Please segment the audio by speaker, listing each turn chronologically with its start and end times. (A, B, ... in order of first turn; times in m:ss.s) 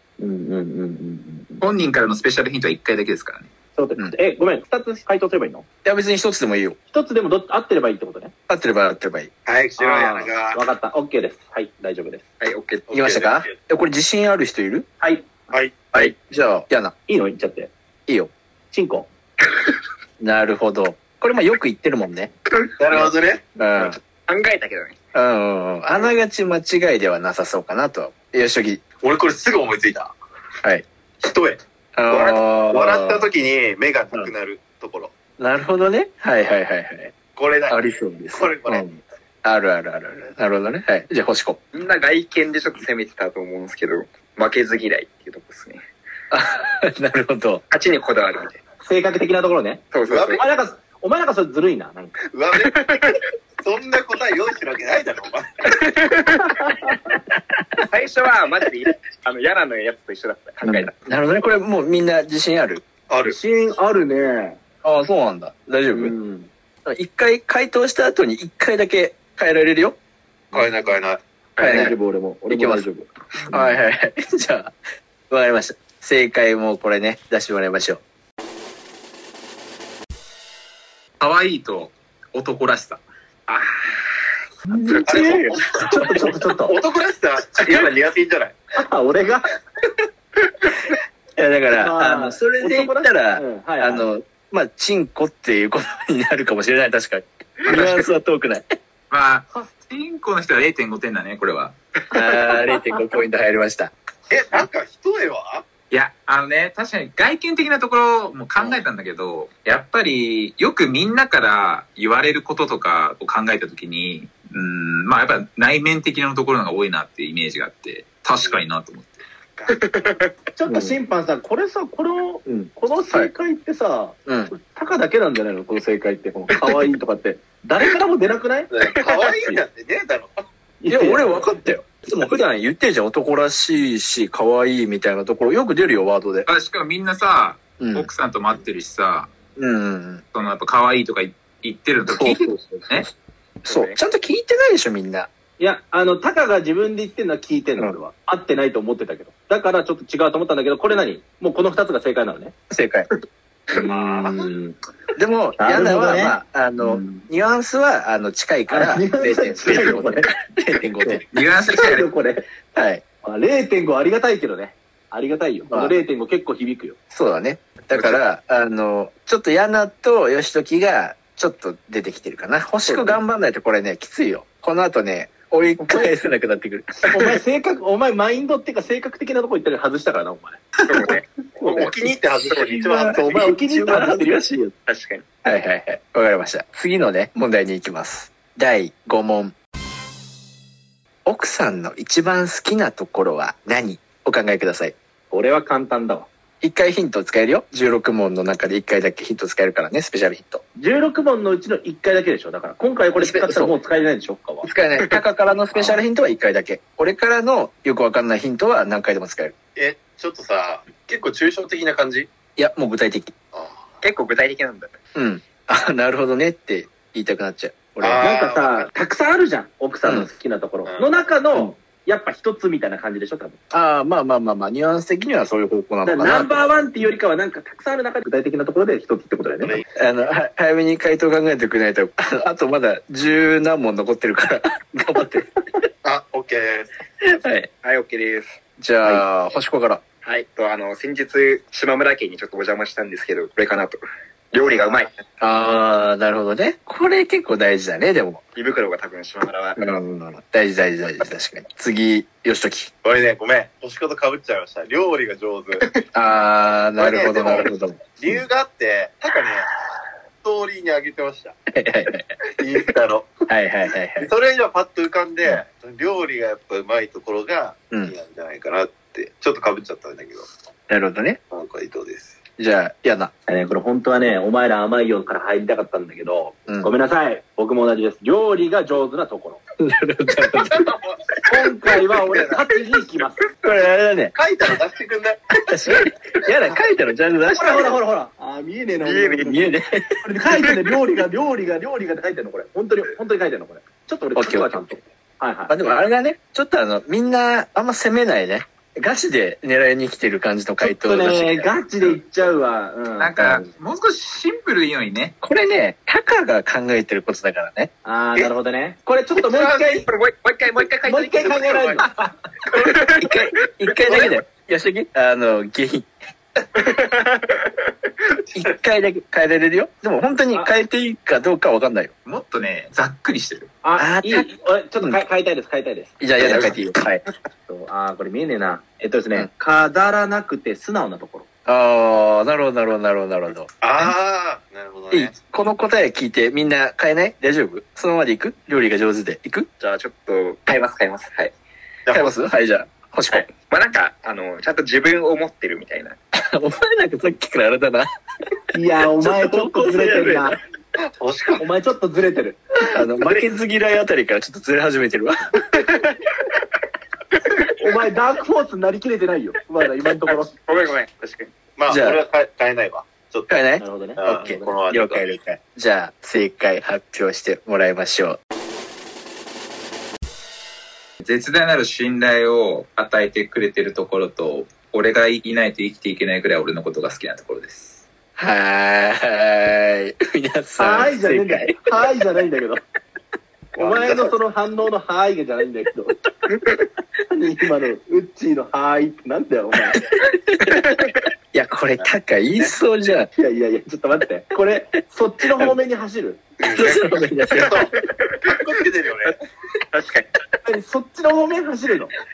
0:00.2-0:01.6 A
0:01.6-0:03.5 B
0:03.8-0:05.7 A
0:05.8-0:06.8 C
0:06.9-0:08.3 A
0:08.5-0:09.3 C
0:09.5-0:10.6 D
0:09.8-0:12.3 A
0:12.4-0:12.9 E
0:12.9-0:13.5 D
0:12.9-0:14.9 C
0:15.0-0:15.3 A
0:15.5-0:15.9 D
0:15.9-0:16.9 C
0:17.1-0:17.7 A
0:18.7-0:19.1 A
0:20.2-0:22.3 C
0:22.8-0:23.4 D
0:23.6-0:24.0 C
0:23.8-0:25.0 E
0:25.1-0:28.8 C
0:29.0-0:30.2 D
0:31.2-0:35.1 D
0:32.0-0:33.3 C
0:35.4-0:37.1 C
0:37.4-0:37.8 D
0:37.7-0:38.9 C
0:38.3-0:39.0 D
0:39.4-0:41.6 C
0:41.7-0:45.8 E
0:46.3-0:47.6 C
0:47.7-0:48.6 E
0:48.8-0:52.2 A
0:49.9-0:50.4 E
0:50.1-0:50.4 D
0:52.3-0:53.0 D
0:53.6-0:55.9 D
0:57.8-1:01.0 E
1:00.6-1:02.8 C
1:03.1-1:03.4 D
1:03.3-1:04.6 A
1:04.8-1:06.2 C
1:05.9-1:06.5 A
1:06.9-1:10.0 C
1:10.5-1:11.2 D
1:11.6-1:13.7 A
1:11.6-1:12.0 C
1:12.5-1:12.9 C
1:13.5-1:14.8 C
1:15.3-1:18.0 C
1:21.2-1:23.0 B
1:23.5-1:24.0 E
1:24.7-1:25.5 C
1:25.0-1:26.8 A
1:25.0-1:28.6 D
1:28.8-1:29.5 A
1:31.4-1:38.7 C
1:31.7-1:34.1 A
1:37.7-1:38.1 B
1:39.1-1:41.8 B
1:42.1-1:43.9 C
1:44.3-1:45.7 D
1:45.9-1:59.2 B
1:59.6-2:00.2 D
2:00.5-2:09.6 A
2:00.7-2:01.0 C
2:02.5-2:03.3 C
2:04.3-2:04.5 C
2:08.7-2:10.5 D
2:10.8-2:11.5 A
2:10.9-2:16.5 C
2:16.5-2:19.3 B
2:17.8-2:18.1 C
2:19.6-2:20.2 C
2:20.3-2:23.1 B
2:22.1-2:23.1 C
2:23.6-2:25.3 C
2:23.7-2:24.0 E
2:25.6-2:32.6 A
2:32.7-2:33.1 C
2:33.7-2:34.8 A
2:33.9-2:34.5 D
2:35.2-2:41.2 C
2:35.6-2:36.4 A
2:36.9-2:37.2 A
2:38.7-2:40.3 A
2:41.0-2:42.5 A
2:41.3-2:42.1 B
2:42.8-2:43.0 C
2:43.2-2:47.0 A
2:45.7-2:46.0 C
2:47.1-2:57.3 C
2:52.9-2:53.2 A
2:55.8-2:56.1 A
2:57.1-3:00.7 A
3:00.9-3:01.9 E
3:01.6-3:03.6 D
3:02.5-3:04.7 C
3:03.1-3:04.5 A
3:04.9-3:05.2 E
3:05.4-3:09.6 C
3:11.2-3:15.0 C
3:15.3-3:16.3 A
3:16.6-3:20.6 C
3:20.8-3:24.7 A
3:23.2-3:23.8 C
3:24.6-3:29.5 C
3:25.8-3:26.0 A
3:29.8-3:32.3 D
3:32.6-3:33.3 C
3:33.5-3:34.0 D
3:34.0-3:35.0 E
3:35.2-3:38.2 C
3:38.0-3:38.9 D
3:38.2-3:43.6 A
3:40.0-3:40.3 C
3:40.9-3:41.2 D
3:43.7-3:46.8 C
3:46.0-3:49.8 A
3:50.0-3:55.5 C
3:56.0-3:57.4 D
3:57.2-3:57.7 C
3:57.8-3:58.6 E
3:58.8-4:00.0 C
4:00.2-4:04.0 E
4:04.5-4:05.2 E
4:04.6-4:05.0 D
4:05.4-4:08.4 C
4:08.6-4:09.8 E
4:09.8-4:12.9 C
4:13.0-4:15.8 D
4:16.1-4:18.4 C
4:17.0-4:19.7 D
4:20.4-4:21.6 D
4:21.7-4:22.4 C
4:22.6-4:23.4 D
4:23.5-4:24.3 C
4:24.2-4:30.5 D
4:30.9-4:31.4 C
4:31.5-4:32.4 D
4:32.6-4:33.3 C
4:33.5-4:39.6 A
4:39.8-4:41.0 C
4:40.7-4:41.5 D
4:41.4-4:43.5 A
4:42.2-4:42.6 D
4:43.6-4:44.3 C
4:44.3-4:45.5 D
4:45.6-4:48.0 C
4:47.5-4:49.7 A
4:49.0-4:49.6 E
4:49.4-4:50.2 C
4:50.2-4:55.8 A
4:54.4-4:55.0 C
4:55.7-5:01.7 C
5:00.8-5:03.7 A
5:03.2-5:05.4 B
5:05.4-5:07.9 C
5:08.0-5:10.1 A
5:09.4-5:09.8 D
5:09.8-5:11.8 E
5:11.0-5:12.1 A
5:11.4-5:12.1 D
5:12.8-5:13.4 E
5:13.2-5:16.1 C
5:13.9-5:14.3 E
5:16.8-5:17.7 E
5:18.5-5:22.1 C
5:22.3-5:23.7 B
5:23.8-5:26.7 A
5:24.0-5:24.5 C
5:26.2-5:27.2 C
5:27.7-5:31.5 A
5:31.7-5:34.1 C
5:33.8-5:35.4 D
5:35.1-5:39.7 C
5:39.8-5:41.5 E
5:42.1-5:42.3 D
5:42.1-5:43.5 C
5:43.3-5:46.2 E
5:46.4-5:48.1 C
5:48.7-5:50.6 A
5:49.1-5:50.6 C
5:51.0-5:51.7 D
5:51.6-5:52.6 A
5:52.8-5:55.4 C
5:57.8-6:00.6 A
6:00.3-6:01.5 E
6:01.8-6:03.6 D
6:01.9-6:02.2 C
6:03.5-6:08.4 C
6:03.8-6:04.2 A
6:04.2-6:05.3 D
6:11.2-6:18.1 B
6:18.4-6:21.8 C
6:20.8-6:22.8 A
6:23.8-6:26.2 A
6:23.8-6:24.3 D
6:27.3-6:30.0 A
6:29.9-6:33.3 C
6:30.8-6:31.1 E
6:33.4-6:36.4 A
6:36.6-6:37.9 D
6:36.7-6:37.9 C
6:38.4-6:39.4 D
6:39.9-6:40.3 E
6:40.6-6:42.2 A